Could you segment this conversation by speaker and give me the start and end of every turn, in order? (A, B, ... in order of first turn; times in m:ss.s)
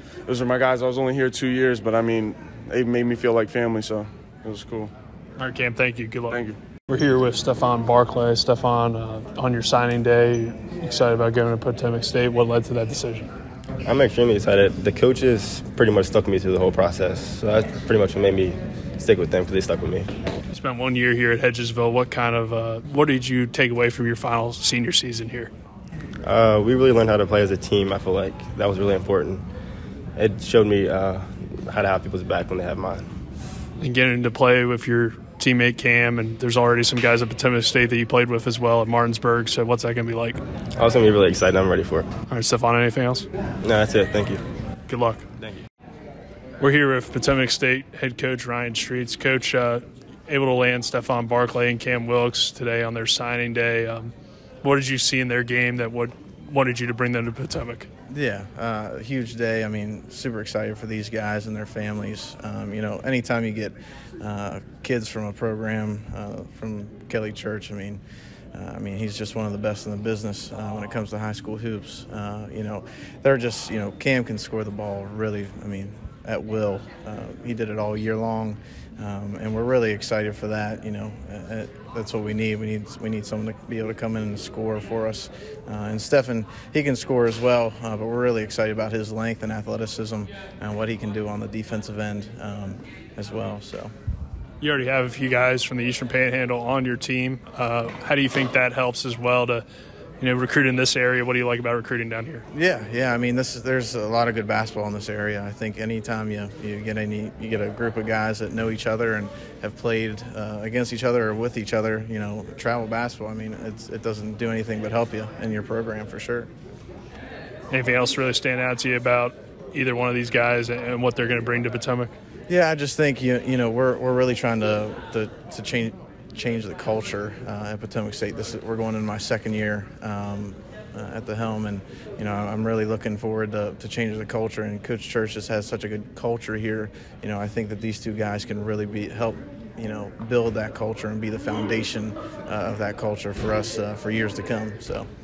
0:00.3-0:04.9 A
0:05.4-0:13.3 B
0:06.3-0:06.6 A
0:13.8-0:20.1 C
0:20.5-0:25.5 B
0:26.2-0:29.4 C
0:30.2-0:33.1 C
0:33.8-0:40.4 B
0:40.8-0:42.1 C
0:42.3-0:43.3 B
0:43.6-0:44.4 C
0:44.9-0:45.3 B
0:46.6-0:57.9 B
0:58.1-1:08.0 D
1:08.5-1:33.9 D
1:34.6-1:39.6 B
1:40.2-1:42.4 B
1:42.5-1:56.5 D
1:57.7-2:02.1 B
2:02.5-2:25.1 D